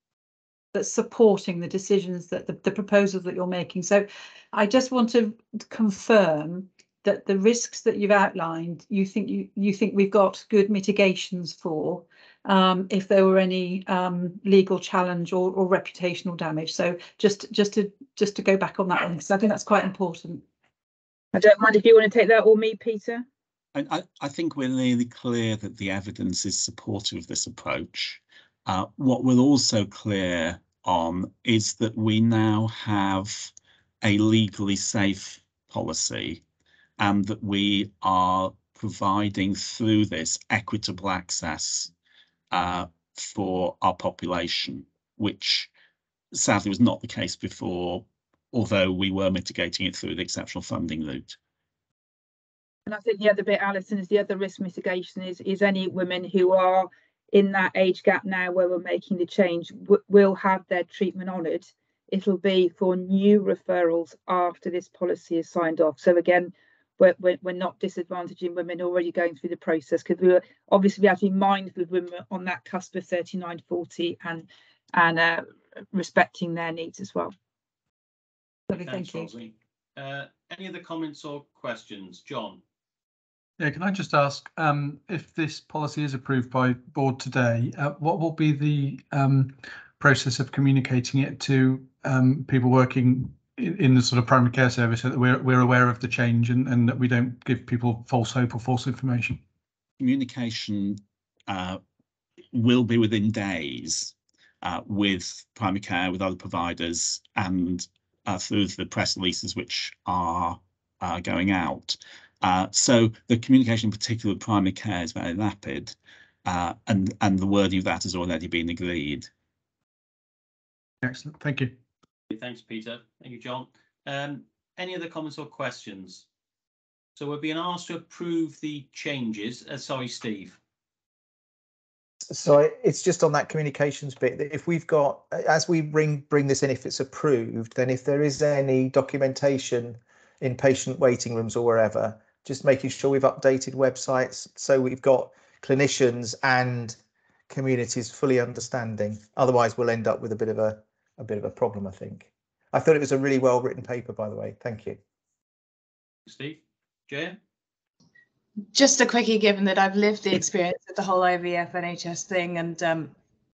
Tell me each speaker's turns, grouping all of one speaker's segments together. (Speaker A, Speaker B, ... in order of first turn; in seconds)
Speaker A: 0.7-20.4, 78.7-79.3
Speaker B: 21.3-23.2, 52.9-77.3
Speaker C: 23.8-36.4, 37.0-41.9, 42.5-45.7, 46.3-51.4, 100.0-101.8, 102.5-119.3
Speaker D: 78.7-82.6, 122.3-126.2, 127.2-130.6, 156.3-157.4
Speaker E: 83.6-99.4, 121.0-121.8
Speaker F: 132.3-147.0, 147.5-155.0
Speaker G: 158.7-163.1